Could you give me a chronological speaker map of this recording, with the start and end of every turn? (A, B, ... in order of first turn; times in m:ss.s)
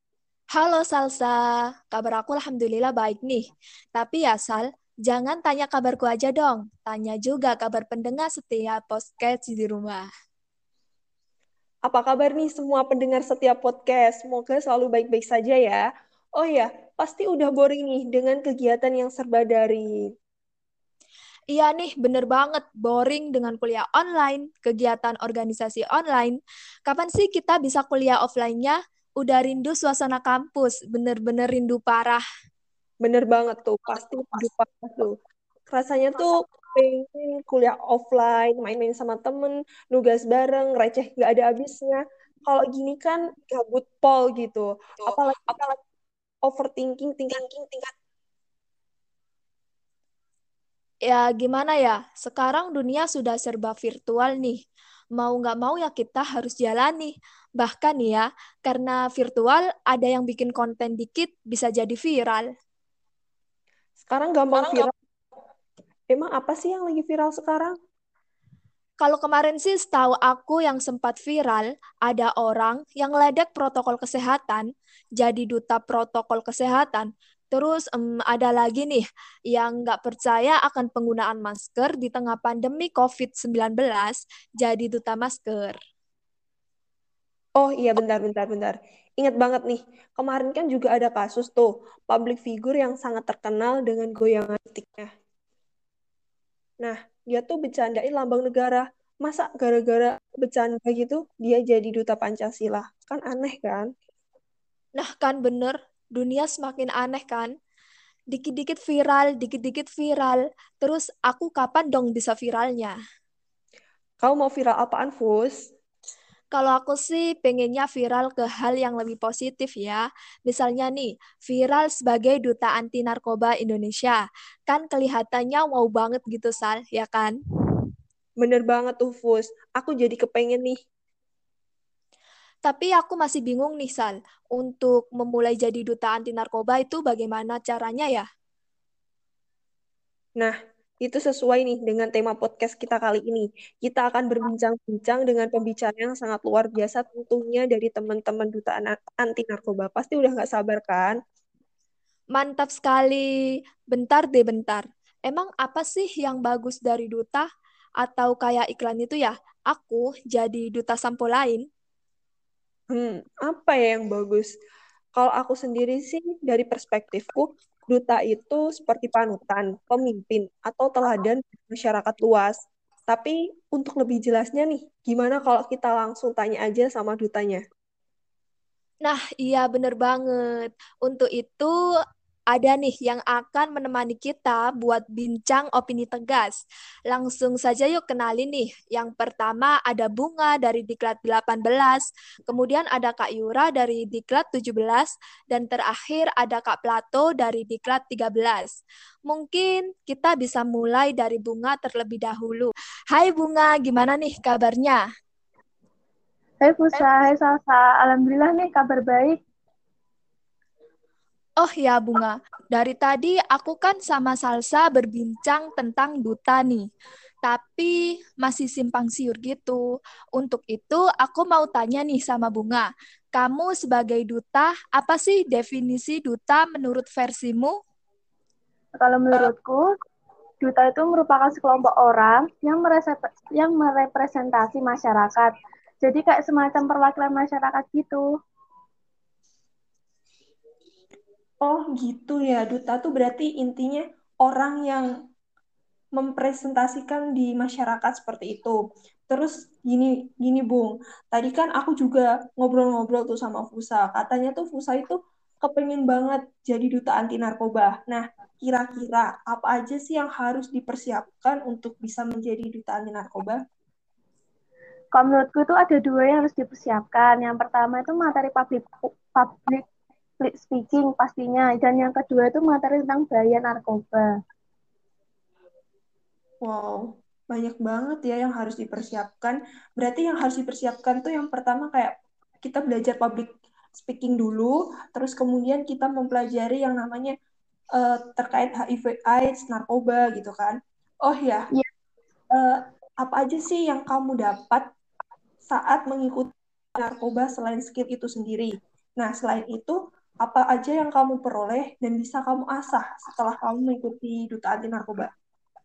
0:00.6-0:01.3 A
0:01.9-0:10.0 A
0:11.9-0:15.8 B
0:16.4-0:19.9 B
0:21.5-0:32.2 A
0:33.0-0:35.1 B
0:35.7-0:45.8 B
0:46.4-0:47.9 B
0:51.1-0:54.6 A
0:55.2-1:02.5 A
1:04.0-1:04.9 B
1:06.1-1:07.7 B
1:09.0-1:14.7 A
1:15.2-1:25.8 A
1:27.6-1:35.1 B
1:36.8-1:43.9 B
1:45.0-1:47.5 A
1:48.3-1:53.0 A
1:54.2-1:55.6 B
1:56.5-2:07.4 A
2:08.4-2:10.8 B
2:12.6-2:18.2 A
2:20.4-2:31.2 B
2:32.4-2:33.3 A
2:33.9-2:37.5 A
2:38.0-2:41.6 A
2:42.9-2:44.5 B
2:45.2-2:52.6 B
2:53.1-2:57.6 B
2:59.0-3:01.7 A
3:02.5-3:18.8 A
3:19.3-3:25.0 A
3:26.6-3:29.4 C
3:31.6-3:36.9 A
3:37.4-3:39.8 A
3:40.4-3:47.8 A
3:49.0-3:49.9 C
3:50.6-3:58.2 C
4:01.6-4:05.1 B
4:06.2-4:08.8 B
4:09.3-4:23.6 B
4:25.1-4:29.8 C
4:30.4-4:34.3 C
4:36.6-4:47.3 B
4:48.0-4:51.6 B
4:52.5-4:54.8 B
4:55.7-5:05.3 B